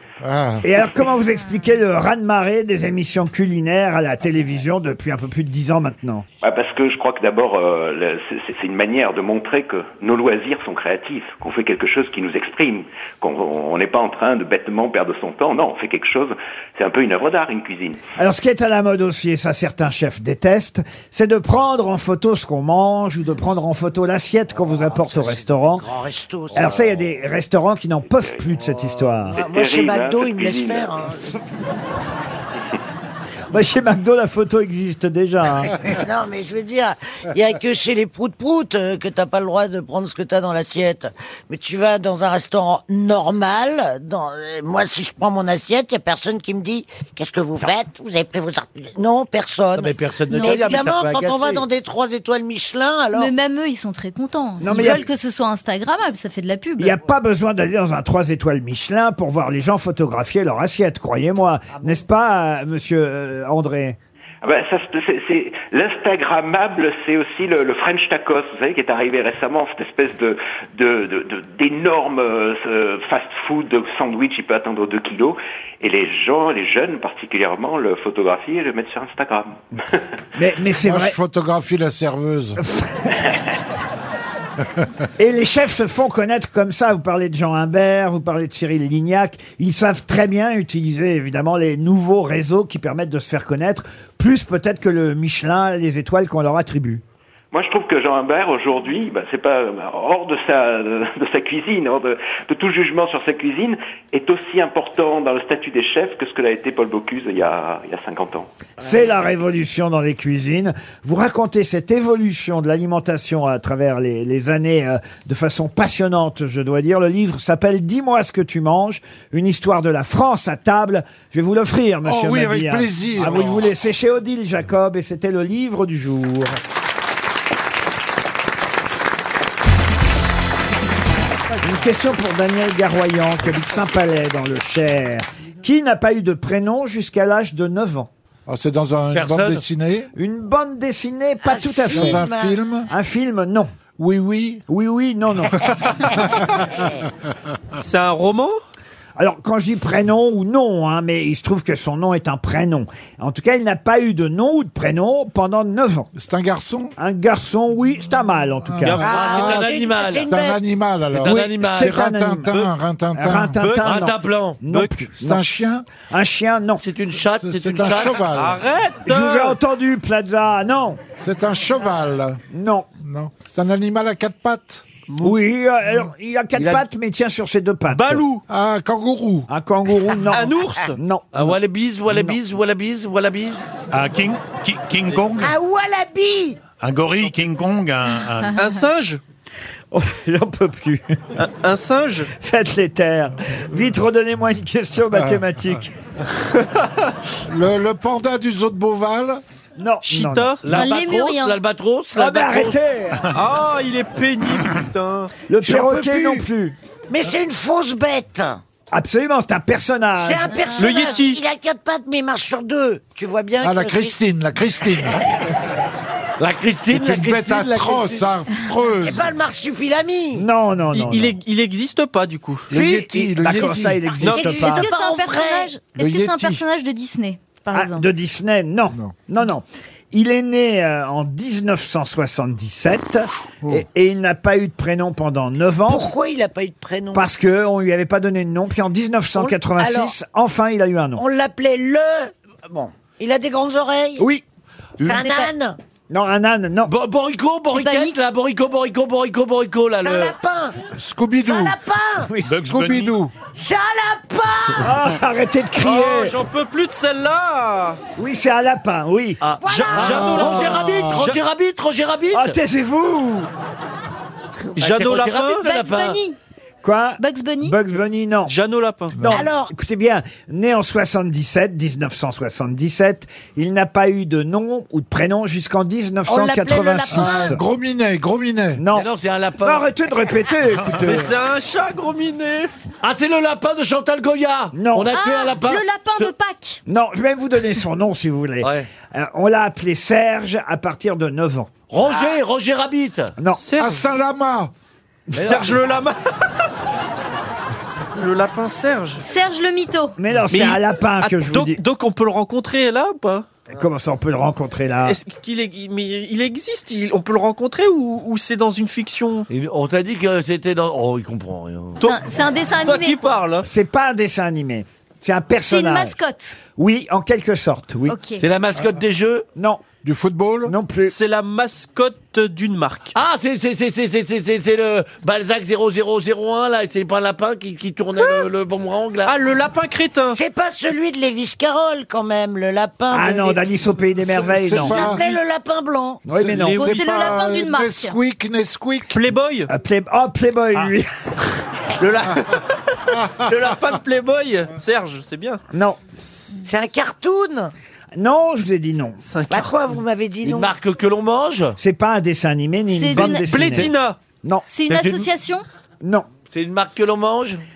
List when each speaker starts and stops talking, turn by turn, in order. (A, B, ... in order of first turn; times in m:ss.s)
0:00.2-0:00.7 A
0:00.6-0:06.2 B
0:06.4-0:18.0 C
0:18.2-0:25.8 B
0:24.8-0:26.9 D
0:26.5-0:29.4 B
0:29.3-0:31.2 D
0:29.4-0:31.1 C
0:33.5-0:35.8 B
0:35.7-0:53.3 D
0:49.7-0:51.6 E
0:50.3-0:50.7 F
0:53.1-0:57.0 F
0:54.6-0:55.0 B
0:56.8-1:04.0 B
1:04.4-1:19.6 C
1:20.4-1:21.2 B
1:20.8-1:22.6 A
1:22.6-1:23.2 B
1:25.2-1:37.0 B
1:37.5-1:48.5 C
1:48.8-2:06.6 B
2:02.0-2:03.7 A
2:11.6-2:18.1 B
2:18.4-2:20.1 A
2:19.1-2:19.6 E
2:20.2-2:22.3 B
2:21.4-2:22.6 D
2:21.9-2:22.9 A
2:22.9-2:23.7 B
2:24.0-2:24.6 A
2:24.7-2:25.7 B
2:27.8-2:28.6 G
2:29.2-2:36.1 B
2:36.1-2:36.9 A
2:37.0-2:39.0 B
2:38.6-2:43.7 A
2:39.0-2:40.3 E
2:39.0-2:40.6 D
2:41.1-2:41.9 E
2:41.2-2:42.5 B
2:43.1-2:45.5 B
2:43.6-2:44.6 E
2:45.2-2:45.9 A
2:46.1-2:46.8 B
2:46.8-2:48.2 E
2:47.4-2:48.6 A
2:48.3-2:49.6 G
2:49.1-2:51.0 B
2:51.2-2:52.4 A
2:52.5-2:52.9 B
2:53.0-2:54.9 A
2:55.1-2:55.4 G
2:55.2-2:58.2 B
2:56.6-2:56.8 E
2:57.9-2:58.4 G
2:58.5-2:59.5 A
2:59.5-3:01.5 B
3:00.3-3:01.0 G
3:01.3-3:03.6 E
3:03.9-3:05.5 H
3:05.4-3:06.6 D
3:06.8-3:08.6 H
3:08.4-3:08.8 F
3:08.6-3:09.2 G
3:09.9-3:11.2 B
3:11.4-3:12.3 G
3:12.3-3:15.9 B
3:17.4-3:19.4 A
3:19.8-3:20.6 B
3:20.0-3:20.8 G
3:20.6-3:22.8 E
3:20.7-3:21.6 F
3:22.1-3:23.2 B
3:23.3-3:25.3 G
3:25.5-3:26.8 B
3:25.8-3:26.3 E
3:27.1-3:28.6 D
3:28.9-3:30.7 B
3:30.2-3:34.2 D
3:30.6-3:31.1 F
3:30.8-3:31.4 G
3:33.6-3:35.2 A
3:36.4-3:38.2 E
3:36.9-3:39.3 A
3:39.0-3:40.4 D
3:40.3-3:41.3 B
3:40.9-3:42.7 G
3:42.7-3:44.3 A
3:42.7-3:44.9 B
3:44.2-3:44.6 G
3:44.2-3:48.1 F
3:44.6-3:45.7 D
3:45.9-3:46.6 A
3:47.7-3:56.1 B
3:55.9-3:57.3 D
3:57.1-4:01.2 B
3:59.3-4:00.1 D
4:01.2-4:04.2 D
4:04.2-4:04.4 B
4:05.0-4:05.8 D
4:05.0-4:05.5 F
4:06.1-4:06.9 B
4:06.8-4:10.3 E
4:07.7-4:08.2 F
4:10.0-4:10.8 D
4:10.9-4:11.8 A
4:11.4-4:12.3 D
4:12.4-4:13.1 H
4:12.6-4:13.3 A
4:13.5-4:14.9 D
4:14.8-4:16.3 B
4:15.8-4:18.0 G
4:18.2-4:19.4 B
4:19.4-4:22.6 E
4:19.6-4:20.4 D
4:19.7-4:21.3 G
4:19.9-4:21.3 A
4:22.3-4:23.5 B
4:24.7-4:26.2 E
4:24.8-4:25.6 G
4:25.6-4:26.4 F
4:26.8-4:28.5 B
4:27.2-4:27.8 F
4:28.5-4:29.2 G
4:29.2-4:29.4 A
4:29.2-4:37.6 B
4:29.3-4:29.7 D
4:36.3-4:37.6 D
4:37.1-4:38.8 A
4:38.8-4:39.1 B
4:38.9-4:39.9 E
4:39.6-4:41.3 B
4:41.0-4:42.7 G
4:43.0-4:46.3 E
4:44.7-4:45.1 B
4:45.1-4:46.8 F
4:46.9-4:51.7 B
4:48.6-4:48.9 E
4:51.9-4:53.3 E
4:53.6-4:54.0 G
4:53.8-4:54.7 A
4:55.3-4:55.8 E
4:55.4-4:56.2 G
4:58.2-4:59.2 G
4:59.2-5:00.1 F
5:00.2-5:01.8 B
5:00.5-5:03.5 G
5:03.7-5:05.2 B
5:05.0-5:09.5 G
5:09.5-5:12.0 E
5:12.0-5:13.6 G
5:12.0-5:13.2 F
5:13.6-5:16.2 B
5:15.7-5:16.6 F
5:16.8-5:18.2 B
5:18.1-5:18.4 F
5:18.4-5:19.4 E
5:19.6-5:19.8 B
5:20.0-5:20.7 A
5:20.6-5:21.1 B
5:21.0-5:23.1 G
5:23.1-5:29.3 E
5:29.2-5:30.4 G
5:30.3-5:33.6 D
5:33.1-5:35.1 B
5:34.2-5:35.4 A
5:34.7-5:36.2 D
5:36.2-5:37.0 B
5:36.3-5:39.2 A
5:36.6-5:37.4 G
5:36.8-5:38.2 F
5:39.1-5:39.7 G
5:39.7-5:41.1 B
5:42.0-5:45.6 G
5:45.7-5:46.0 B
5:46.6-5:47.7 D
5:48.2-5:49.2 B
5:49.2-5:49.8 G
5:49.5-5:50.7 D
5:50.4-5:51.8 E
5:51.8-5:54.6 B
5:52.9-5:53.9 F
5:53.2-5:54.2 G
5:54.7-5:55.6 F
5:54.9-5:55.2 E
5:56.5-5:57.6 E